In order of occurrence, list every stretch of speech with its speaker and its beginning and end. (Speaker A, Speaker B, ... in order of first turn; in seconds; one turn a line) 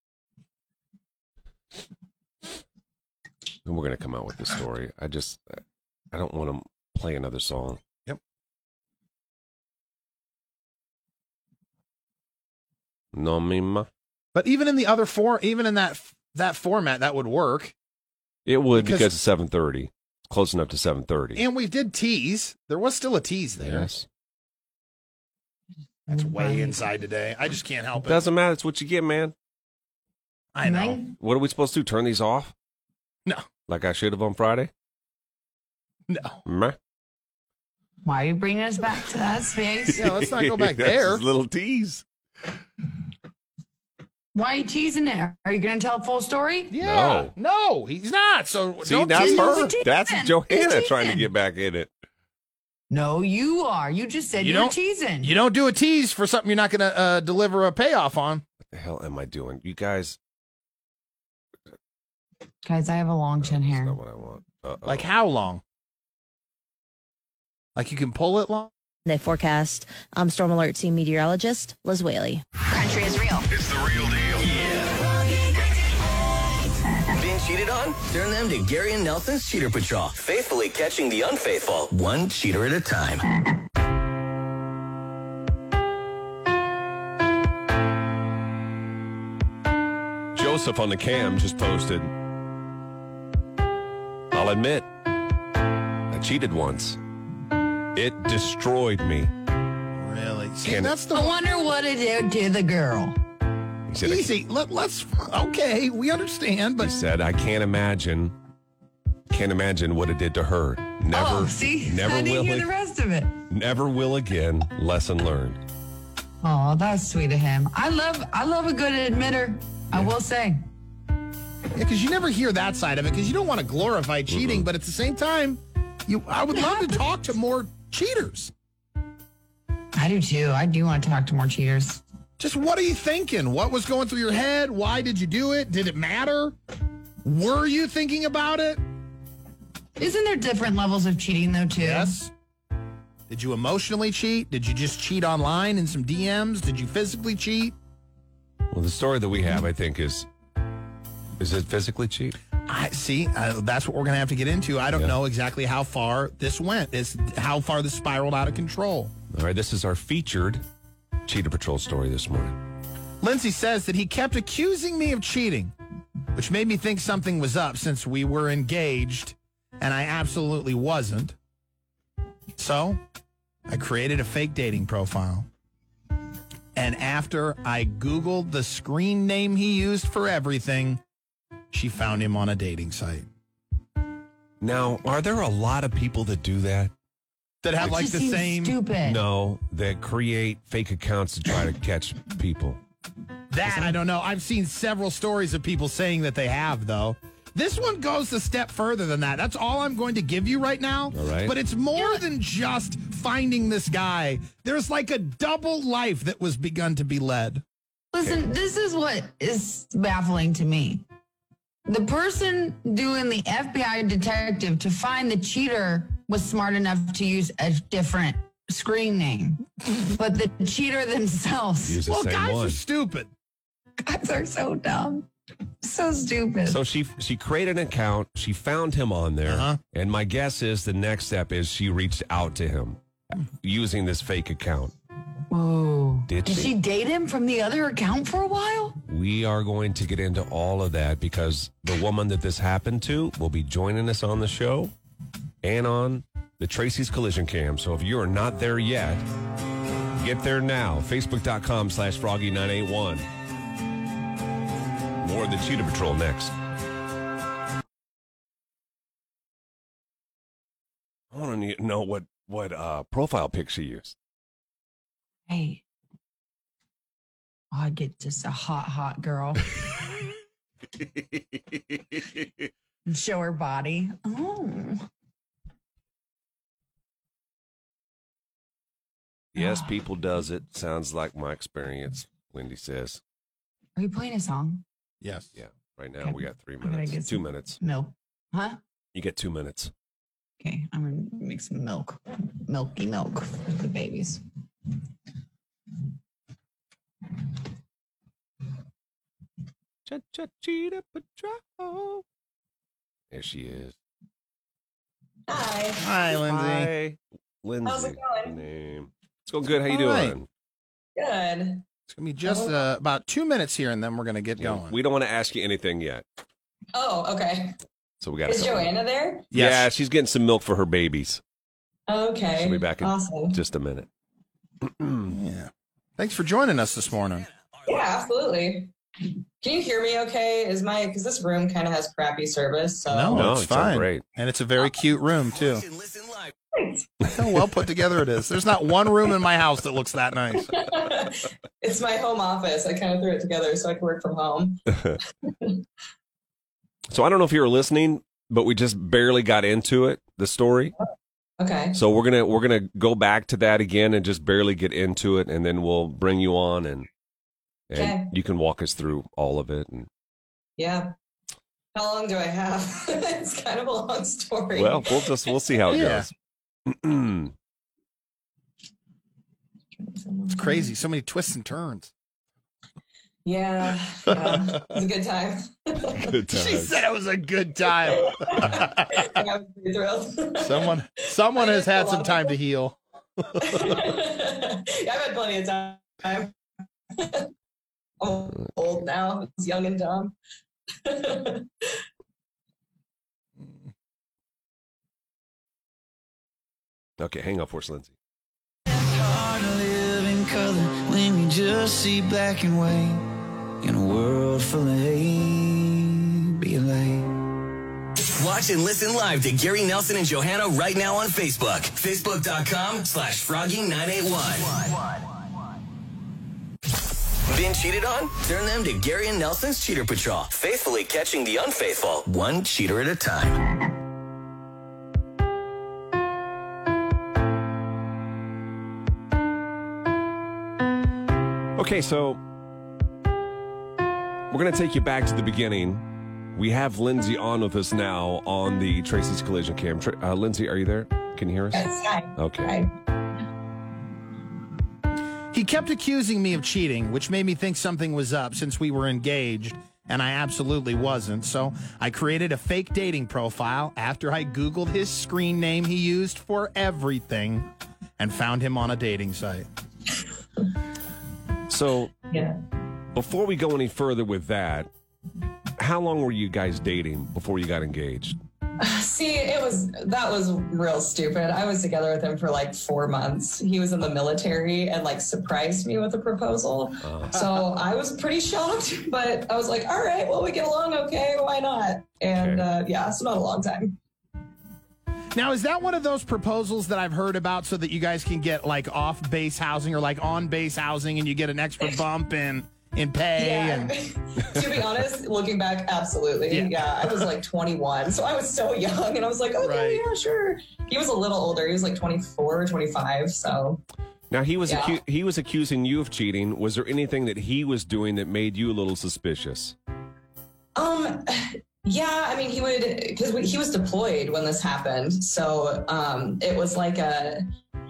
Speaker A: 3.6-7.8
Speaker A: 13.1-13.9
Speaker B: 14.3-17.7
Speaker A: 18.4-21.4
Speaker B: 18.8-19.1
Speaker B: 21.3-23.9
Speaker A: 23.6-24.1
Speaker B: 26.1-28.2
Speaker C: 26.1-26.8
Speaker A: 28.0-29.3
Speaker B: 30.5-31.0
Speaker C: 30.6-31.1
Speaker A: 31.2-32.5
Speaker A: 33.7-34.7
Speaker B: 36.1-36.4
Speaker A: 36.5-36.8
Speaker C: 38.0-40.0
Speaker B: 39.9-41.2
Speaker A: 40.0-42.0
Speaker C: 44.3-46.7
Speaker B: 46.7-49.7
Speaker A: 46.8-47.3
Speaker A: 48.8-51.9
Speaker C: 49.1-51.3
Speaker C: 52.9-55.3
Speaker B: 54.4-58.4
Speaker A: 58.6-60.2
Speaker C: 62.6-64.0
Speaker A: 63.4-65.1
Speaker B: 64.8-65.6
Speaker B: 67.8-68.7
Speaker D: 69.0-72.4
Speaker C: 72.7-73.4
Speaker E: 74.5-74.8
Speaker E: 77.1-83.2
Speaker A: 90.3-92.1
Speaker A: 94.3-94.9
Speaker A: 96.1-97.0
Speaker A: 97.9-99.3
Speaker B: 100.0-101.3
Speaker A: 100.6-100.9
Speaker C: 101.1-103.2
Speaker A: 103.9-104.3
Speaker B: 104.0-106.9
Speaker A: 106.8-108.3
Speaker A: 109.3-112.7
Speaker C: 111.1-113.4
Speaker A: 113.5-115.6
Speaker C: 116.4-120.6
Speaker B: 121.7-128.5
Speaker A: 124.3-124.7
Speaker C: 129.9-132.0
Speaker B: 132.4-136.5
Speaker B: 137.2-138.8
Speaker C: 140.0-142.2
Speaker B: 141.8-142.3
Speaker B: 143.3-147.7
Speaker A: 148.7-150.3
Speaker A: 151.4-152.4
Speaker B: 152.7-159.1
Speaker A: 159.3-160.6
Speaker A: 161.2-162.6
Speaker B: 163.2-165.7
Speaker B: 166.3-171.3
Speaker B: 172.6-173.0
Speaker B: 173.7-175.5
Speaker B: 176.7-181.0
Speaker B: 181.7-183.2
Speaker A: 184.6-186.9
Speaker B: 187.6-188.8
Speaker C: 187.8-189.2
Speaker A: 189.0-192.8
Speaker B: 193.5-207.6
Speaker A: 193.7-193.9
Speaker A: 201.1-201.6
Speaker C: 201.9-202.2
Speaker C: 208.1-211.0
Speaker C: 211.8-222.0
Speaker A: 221.8-222.8
Speaker B: 222.1-223.3
Speaker C: 224.0-225.3
Speaker C: 225.8-226.8
Speaker A: 226.7-234.9
Speaker B: 229.5-229.8
Speaker C: 235.5-239.0
Speaker A: 236.2-236.7
Speaker A: 239.1-244.9
Speaker A: 245.6-249.2
Speaker A: 250.2-253.3
Speaker A: 255.2-256.6
Speaker A: 261.3-264.1
Speaker C: 265.5-265.8
Speaker C: 267.7-269.7
Speaker C: 273.1-275.1
Speaker A: 279.5-283.2
Speaker C: 279.6-279.9
Speaker C: 283.9-284.8
Speaker B: 285.2-285.5
Speaker A: 285.6-287.8
Speaker C: 286.2-288.8
Speaker A: 289.1-289.9
Speaker C: 290.6-294.4
Speaker A: 300.1-302.2
Speaker A: 303.3-303.9
Speaker F: 305.5-306.2
Speaker B: 306.0-306.9
Speaker A: 306.3-310.5
Speaker F: 307.8-308.6
Speaker B: 309.9-310.3
Speaker F: 311.1-311.9
Speaker B: 312.1-314.9
Speaker F: 312.4-312.8
Speaker A: 314.6-316.2
Speaker F: 316.9-317.8
Speaker A: 318.2-318.9
Speaker F: 318.4-319.5
Speaker B: 319.5-319.9
Speaker A: 319.5-321.4
Speaker F: 322.1-323.6
Speaker A: 322.6-324.1
Speaker A: 324.8-325.3
Speaker B: 325.3-327.5
Speaker F: 327.9-328.9
Speaker F: 329.6-333.5
Speaker B: 333.1-335.8
Speaker A: 333.3-334.2
Speaker E: 335.5-336.5
Speaker F: 336.7-337.1
Speaker B: 337.3-340.7
Speaker F: 340.6-344.8
Speaker F: 345.4-345.8
Speaker A: 347.1-350.9
Speaker F: 351.6-352.0
Speaker A: 351.9-357.1
Speaker A: 357.9-360.1
Speaker F: 357.9-358.3
Speaker F: 360.8-361.1
Speaker F: 361.9-365.5
Speaker A: 364.7-366.3
Speaker B: 365.9-366.3
Speaker A: 366.9-367.5
Speaker F: 369.9-370.9
Speaker B: 370.5-372.1
Speaker F: 373.4-376.4
Speaker A: 376.2-377.0
Speaker B: 376.5-379.0
Speaker F: 377.9-382.6
Speaker B: 380.6-383.0
Speaker F: 383.6-386.5
Speaker F: 387.1-387.5
Speaker F: 388.2-390.3
Speaker F: 391.0-391.9
Speaker A: 397.2-398.1
Speaker G: 398.9-403.2
Speaker G: 403.8-407.3
Speaker E: 408.2-415.2
Speaker E: 417.5-423.6
Speaker A: 431.8-432.4
Speaker A: 434.5-442.8
Speaker F: 441.7-442.9
Speaker B: 445.5-457.7
Speaker B: 458.2-459.7
Speaker A: 461.7-462.1
Speaker F: 462.3-462.6
Speaker A: 463.1-464.9
Speaker A: 465.8-468.4
Speaker F: 468.8-484.0
Speaker A: 477.0-477.4
Speaker A: 482.3-482.7
Speaker B: 485.3-493.9
Speaker F: 493.3-503.8
Speaker B: 496.5-497.3
Speaker B: 499.6-500.0
Speaker A: 504.3-509.7
Speaker F: 504.6-505.0
Speaker F: 510.8-517.4